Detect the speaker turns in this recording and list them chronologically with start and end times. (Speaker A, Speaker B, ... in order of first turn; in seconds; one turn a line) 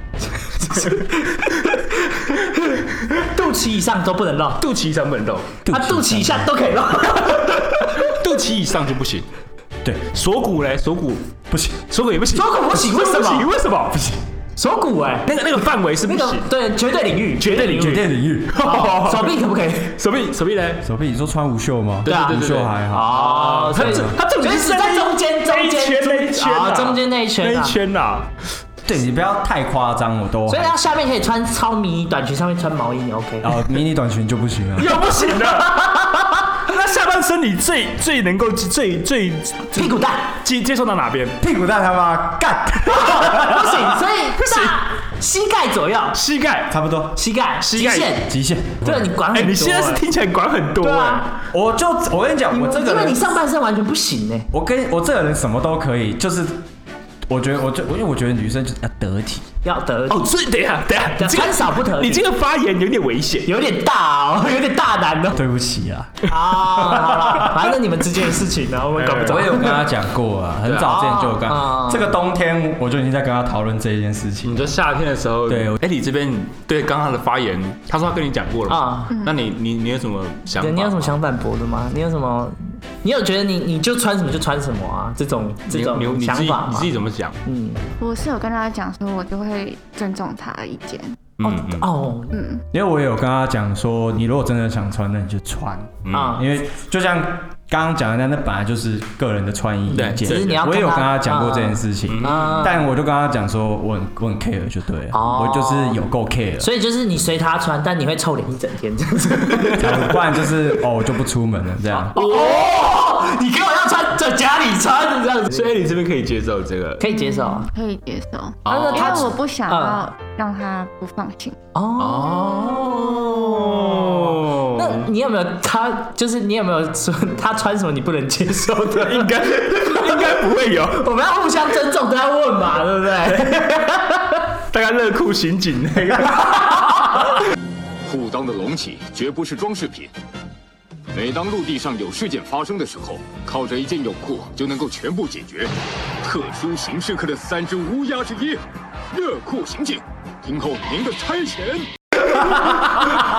Speaker A: 0.6-4.6
Speaker B: 0.7-1.6
Speaker B: 2.7-3.1
Speaker B: 4.6-5.6
Speaker C: 5.6-6.5
Speaker A: 5.7-8.1
Speaker B: 7.8-9.3
Speaker C: 9.8-10.1
Speaker B: 10.1-11.3
Speaker C: 11.5-11.9
Speaker B: 11.9-14.1
Speaker A: 12.3-13.5
Speaker C: 13.9-14.2
Speaker A: 14.6-15.3
Speaker B: 15.3-16.5
Speaker A: 16.1-18.1
Speaker B: 17.4-19.4
Speaker C: 17.6-18.6
Speaker A: 18.6-20.0
Speaker B: 19.9-20.8
Speaker C: 20.8-23.2
Speaker B: 22.0-28.3
Speaker A: 22.1-27.8
Speaker C: 23.8-24.1
Speaker C: 28.8-30.8
Speaker A: 30.5-33.6
Speaker C: 33.4-35.0
Speaker B: 34.8-41.4
Speaker A: 35.4-36.4
Speaker A: 39.7-40.4
Speaker C: 41.4-43.8
Speaker A: 42.9-46.2
Speaker B: 44.4-44.8
Speaker B: 46.1-46.7
Speaker C: 46.7-47.2
Speaker A: 47.1-50.0
Speaker B: 47.6-48.2
Speaker C: 48.3-49.1
Speaker B: 49.3-51.3
Speaker A: 50.8-51.3
Speaker C: 51.5-53.3
Speaker A: 52.5-54.5
Speaker C: 54.5-56.6
Speaker C: 57.3-59.5
Speaker A: 59.6-60.3
Speaker B: 60.1-63.5
Speaker A: 61.2-62.2
Speaker A: 63.4-65.4
Speaker C: 65.3-67.7
Speaker A: 66.2-69.8
Speaker B: 69.0-69.6
Speaker C: 69.2-74.7
Speaker B: 70.6-71.1
Speaker A: 70.9-72.1
Speaker B: 74.4-81.2
Speaker C: 75.5-75.8
Speaker A: 78.7-79.1
Speaker D: 79.1-79.4
Speaker A: 80.6-87.8
Speaker B: 85.7-87.4
Speaker D: 88.0-91.2
Speaker B: 91.4-91.9
Speaker A: 91.4-92.3
Speaker D: 92.3-92.6
Speaker C: 92.7-106.7
Speaker B: 96.0-96.4
Speaker A: 96.1-96.5
Speaker A: 99.9-102.8
Speaker B: 99.9-100.6
Speaker B: 102.1-102.7
Speaker A: 105.1-106.0
Speaker A: 106.6-110.1
Speaker C: 109.7-112.2
Speaker A: 112.1-115.7
Speaker B: 115.5-117.0
Speaker A: 117.0-117.7
Speaker D: 117.0-121.6
Speaker B: 118.6-119.3
Speaker A: 118.7-120.1
Speaker A: 121.7-134.5
Speaker B: 122.0-125.1
Speaker B: 128.9-131.0
Speaker B: 133.3-133.6
Speaker B: 134.7-137.4
Speaker A: 136.7-137.2
Speaker E: 138.1-140.1
Speaker E: 141.1-145.7
Speaker E: 146.2-148.6
Speaker E: 149.1-151.9